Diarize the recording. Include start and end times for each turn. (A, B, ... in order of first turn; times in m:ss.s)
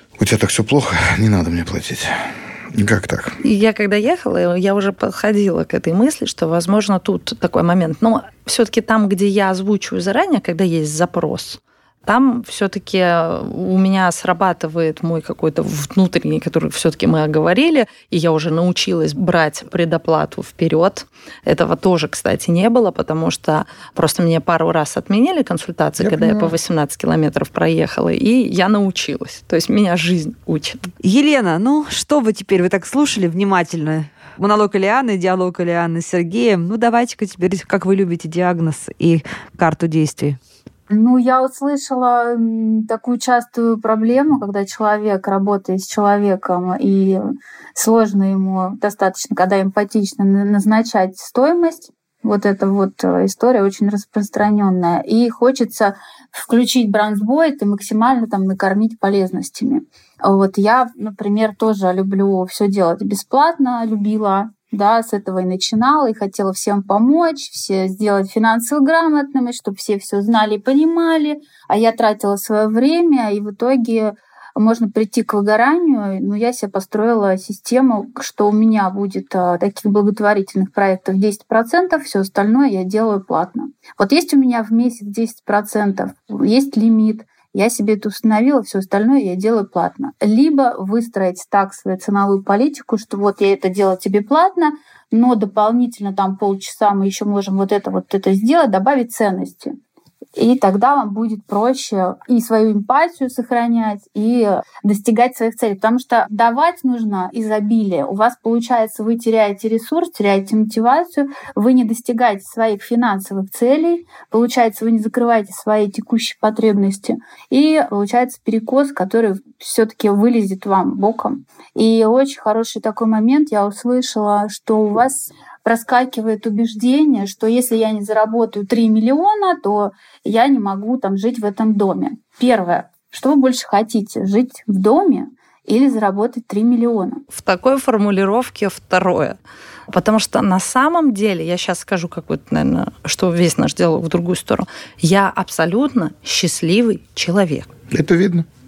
0:00.2-0:03.4 A
0:03.4-0:30.9 B
0:26.0-0:26.6 A
0:31.0-0:40.4 C
0:40.9-0:47.2 D
0:47.8-1:39.8 D
1:40.4-2:17.2 D
2:17.3-2:19.4 B
2:19.9-2:27.7 B
2:27.9-2:28.5 A